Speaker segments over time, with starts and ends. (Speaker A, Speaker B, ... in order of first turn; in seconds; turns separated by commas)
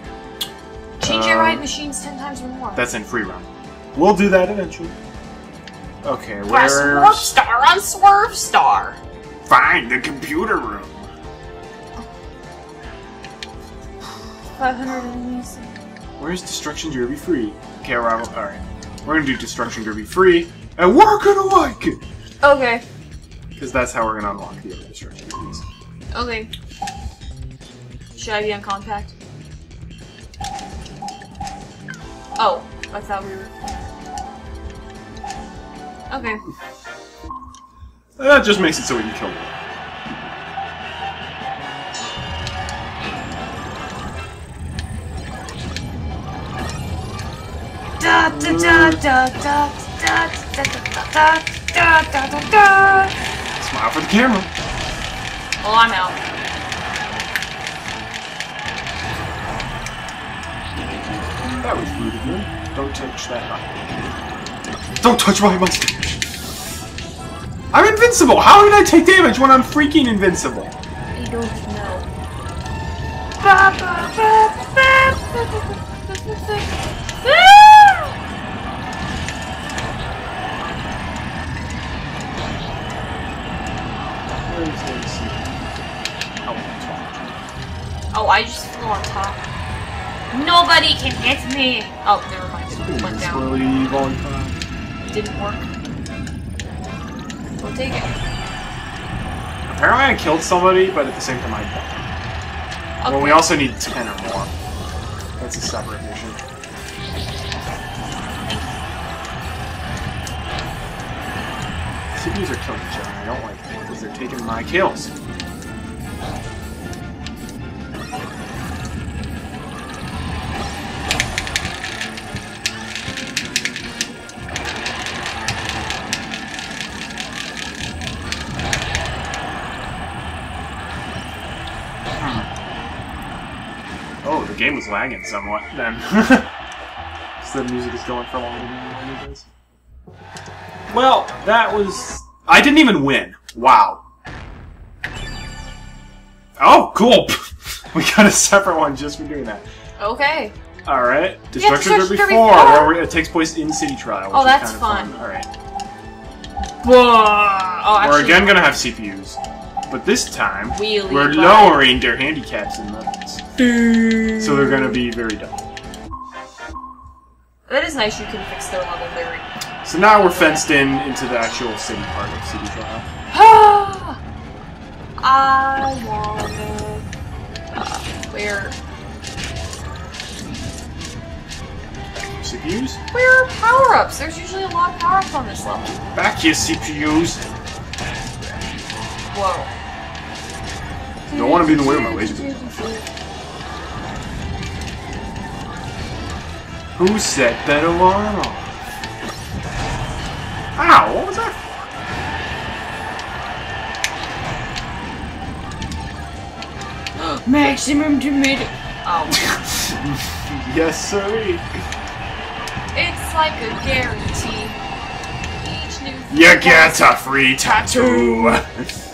Speaker A: 1.0-2.9, Speaker B: 1.0-1.6, Speaker B: 2.8-5.0, Speaker B: 6.0-7.3, Speaker A: 6.5-9.0, Speaker B: 9.5-11.1, Speaker A: 14.6-15.8, Speaker B: 16.2-22.0, Speaker A: 22.4-22.8, Speaker B: 23.6-25.6, Speaker A: 26.1-26.5, Speaker A: 28.2-29.1, Speaker A: 32.4-33.7, Speaker A: 36.1-36.4, Speaker B: 38.2-39.5, Speaker A: 48.0-53.1, Speaker B: 48.3-49.0, Speaker B: 53.6-54.5, Speaker A: 55.6-56.2, Speaker B: 61.6-63.8, Speaker B: 65.0-66.3, Speaker B: 67.7-70.7, Speaker A: 71.1-72.1, Speaker A: 73.4-78.2, Speaker B: 84.3-87.4, Speaker A: 88.1-89.5, Speaker A: 90.3-93.6, Speaker B: 92.7-94.6, Speaker A: 95.1-95.7, Speaker A: 97.6-98.2, Speaker B: 99.7-102.1, Speaker A: 103.0-103.6, Speaker B: 103.1-104.5, Speaker B: 105.4-106.4, Speaker B: 112.2-115.1, Speaker B: 132.2-132.5, Speaker B: 134.2-136.5, Speaker B: 137.4-139.5, Speaker B: 140.9-144.0, Speaker B: 146.6-149.7, Speaker A: 150.0-150.5, Speaker B: 150.9-155.5, Speaker A: 151.6-153.0, Speaker A: 154.3-155.2, Speaker A: 156.8-158.7, Speaker B: 158.0-159.4, Speaker B: 159.9-163.4, Speaker A: 160.7-161.9, Speaker A: 163.6-165.0, Speaker B: 164.4-165.7, Speaker A: 167.7-169.5, Speaker B: 169.8-173.1, Speaker A: 173.3-174.2, Speaker A: 175.2-177.1, Speaker A: 177.7-178.8, Speaker B: 182.2-183.0, Speaker A: 183.1-186.0, Speaker B: 186.0-187.5, Speaker A: 189.3-189.8, Speaker A: 191.3-193.1, Speaker B: 191.3-192.7, Speaker B: 197.0-198.7, Speaker B: 200.8-201.9, Speaker A: 207.2-209.5, Speaker B: 209.3-211.7, Speaker A: 212.9-214.8, Speaker A: 215.6-218.6, Speaker B: 216.3-218.9